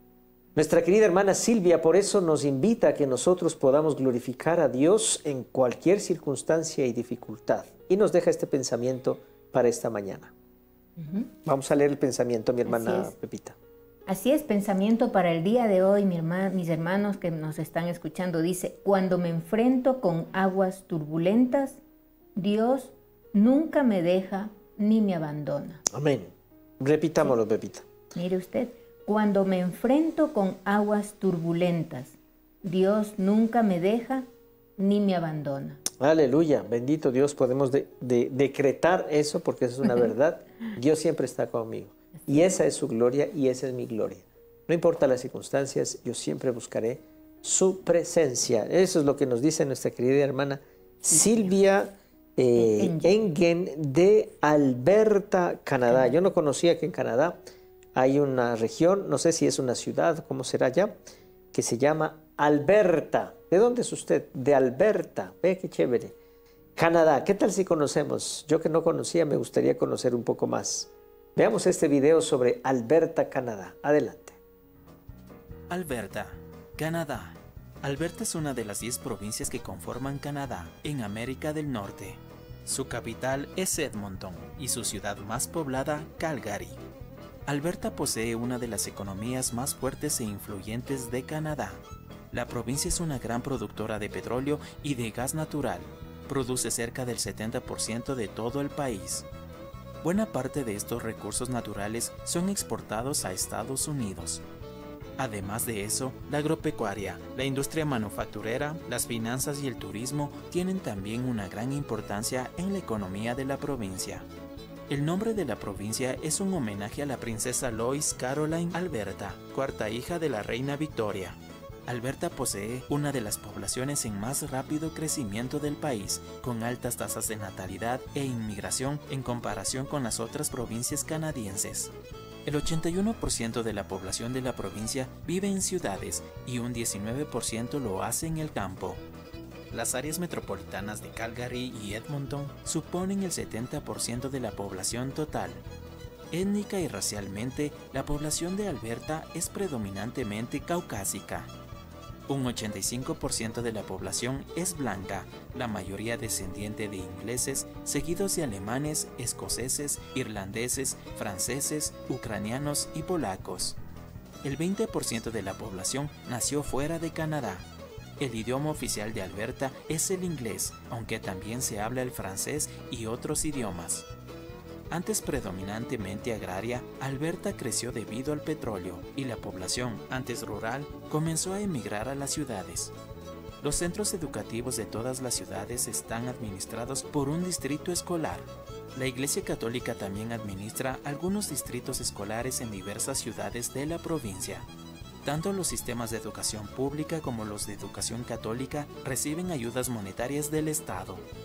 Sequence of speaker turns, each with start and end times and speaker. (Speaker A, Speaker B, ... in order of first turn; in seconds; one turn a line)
Speaker A: 0.5-10.3
Speaker B: 11.0-11.3
Speaker A: 11.4-13.6
Speaker B: 12.6-13.1
Speaker B: 14.1-21.8
Speaker B: 22.3-25.8
Speaker A: 25.9-27.9
Speaker B: 28.1-35.8
Speaker A: 36.0-57.4
Speaker B: 51.1-51.5
Speaker B: 52.5-53.1
Speaker A: 57.9-61.0
Speaker A: 61.5-66.1
Speaker A: 66.8-74.4
Speaker C: 75.7-86.8
Speaker C: 87.5-99.3
Speaker C: 100.0-104.4
Speaker C: 105.2-114.3
Speaker C: 114.9-131.9
Speaker C: 132.4-139.0
Speaker C: 139.7-145.6
Speaker C: 146.3-151.5
Speaker C: 152.3-163.8
Speaker C: 164.4-167.7
Speaker C: 168.2-174.1
Speaker C: 174.9-182.9
Speaker C: 183.6-194.7
Speaker C: 195.2-201.2